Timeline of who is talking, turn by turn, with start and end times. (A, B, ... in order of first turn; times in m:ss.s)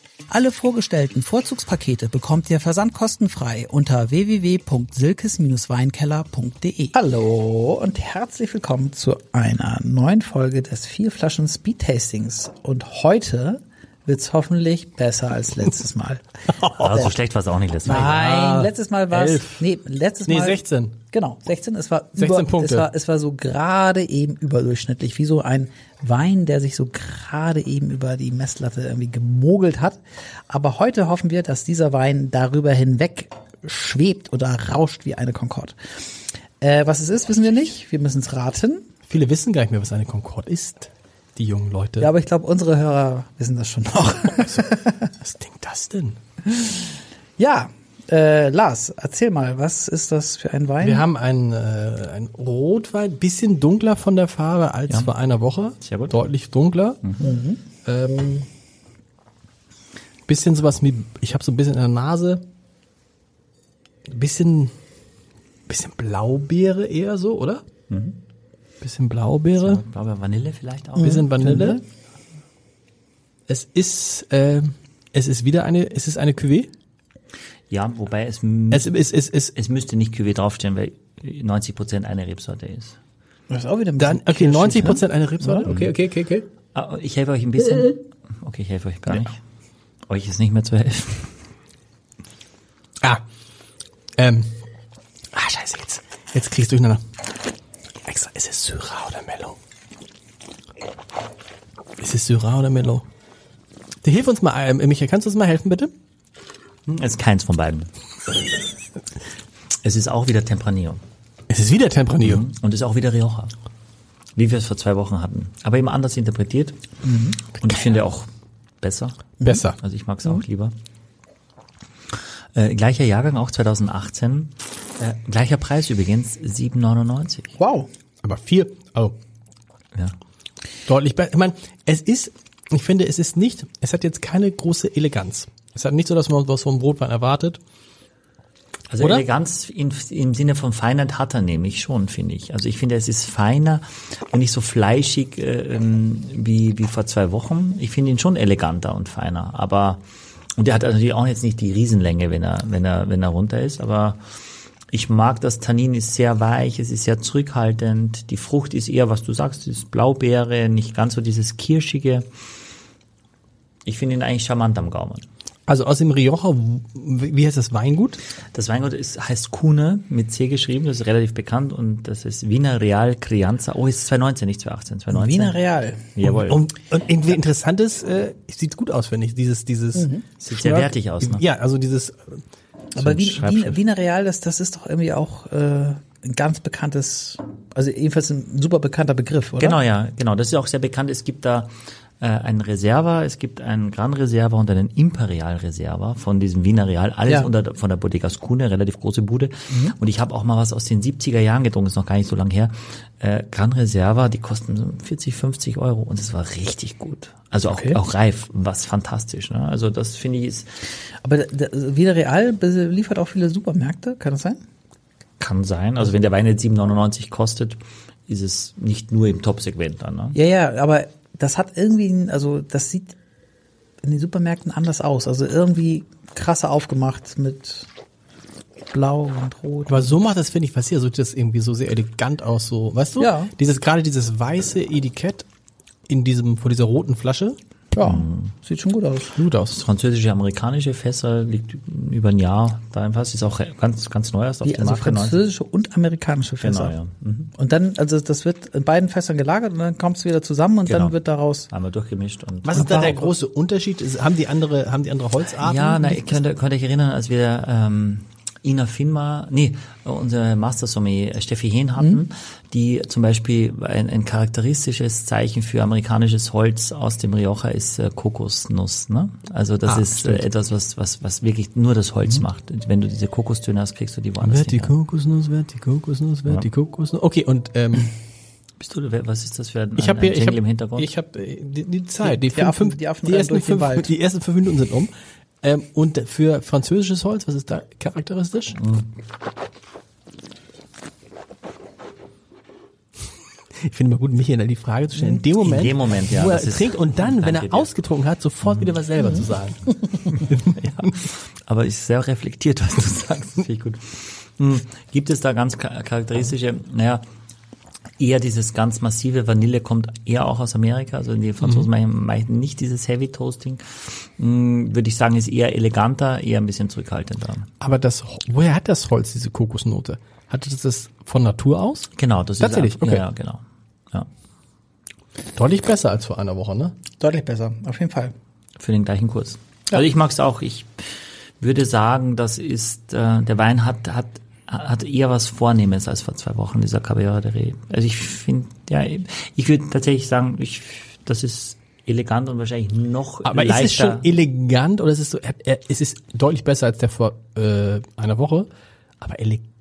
0:00.3-0:17.2 A
0:16.8-0:18.2 B
0:17.8-0:35.8 A
0:17.9-0:19.7 C
0:20.2-0:21.0 C
0:22.2-0:22.9 C
0:36.6-0:38.9 A
0:39.1-0:42.1 C
0:42.0-0:45.1 A
0:45.2-0:46.2 C
0:47.4-0:51.1 A
0:50.8-0:57.1 C
0:55.8-0:56.2 B
0:57.2-0:57.6 A
0:57.8-0:58.5 C
1:00.3-1:02.4 C
1:04.1-1:04.7 C
1:05.7-1:07.6 C
1:07.9-1:08.2 B
1:08.8-1:09.8 C
1:09.7-1:11.3 B
1:11.0-1:11.8 C
1:11.4-1:11.8 A
1:13.5-1:16.7 C
1:17.7-1:18.9 B
1:18.7-1:19.5 C
1:19.5-1:23.0 B
1:23.5-1:25.6 A
1:24.0-1:26.5 C
1:25.6-1:25.9 B
1:26.7-1:29.4 B
1:30.1-1:31.3 B
1:34.2-1:34.5 C
1:35.3-1:37.0 C
1:38.1-1:39.6 C
1:42.0-1:43.0 C
1:44.0-1:45.9 C
1:46.9-1:47.9 B
1:49.8-1:51.0 B
1:51.5-1:52.4 C
1:52.2-1:53.5 B
1:54.4-1:56.8 B
1:57.0-1:57.4 A
1:57.6-1:58.3 B
1:58.8-2:00.7 B
1:59.4-1:59.8 C
2:02.6-2:07.5 B
2:07.6-2:07.9 A
2:08.2-2:09.2 C
2:10.9-2:17.6 C
2:18.9-2:30.0 B
2:19.0-2:19.3 C
2:30.6-2:34.2 B
2:34.9-2:42.3 B
2:43.9-2:45.3 B
2:45.7-2:48.2 C
2:48.5-2:55.6 B
2:55.1-2:56.1 A
2:56.2-2:56.6 B
2:56.2-3:02.4 C
3:00.0-3:00.2 A
3:00.4-3:01.4 B
3:03.0-3:09.8 A
3:03.0-3:03.8 B
3:09.6-3:30.7 B
3:19.7-3:20.0 A
3:27.6-3:28.0 A
3:31.2-3:34.6 A
3:35.4-3:40.4 B
3:40.3-3:43.2 A
3:44.0-3:47.9 A
3:48.9-3:50.1 A
3:49.9-3:55.5 C
3:53.2-3:53.5 A
3:56.1-3:57.6 C
3:57.9-3:59.4 A
3:58.0-3:58.5 B
3:59.4-3:59.8 C
3:59.7-4:05.4 B
4:04.6-4:07.0 A
4:06.6-4:07.5 B
4:07.6-4:11.7 A
4:10.9-4:11.2 B
4:11.7-4:13.1 B
4:12.6-4:16.4 C
4:12.8-4:13.3 A
4:15.6-4:34.9 B
4:29.9-4:30.4 C
4:34.4-4:38.1 C
4:38.8-4:41.1 B
4:40.0-4:45.1 C
4:42.2-4:44.1 A
4:45.6-4:48.8 C
4:48.8-4:49.1 B
4:53.8-5:01.1 C
4:55.6-4:57.9 B
4:58.6-4:59.0 B
5:00.7-5:07.2 B
5:08.2-5:13.8 B
5:14.4-5:17.7 B
5:17.8-5:23.2 C
5:22.2-5:24.3 B
5:25.6-5:26.9 C
5:27.2-5:28.3 A
5:28.8-5:44.3 B
5:43.4-5:48.7 C
5:49.2-5:49.6 C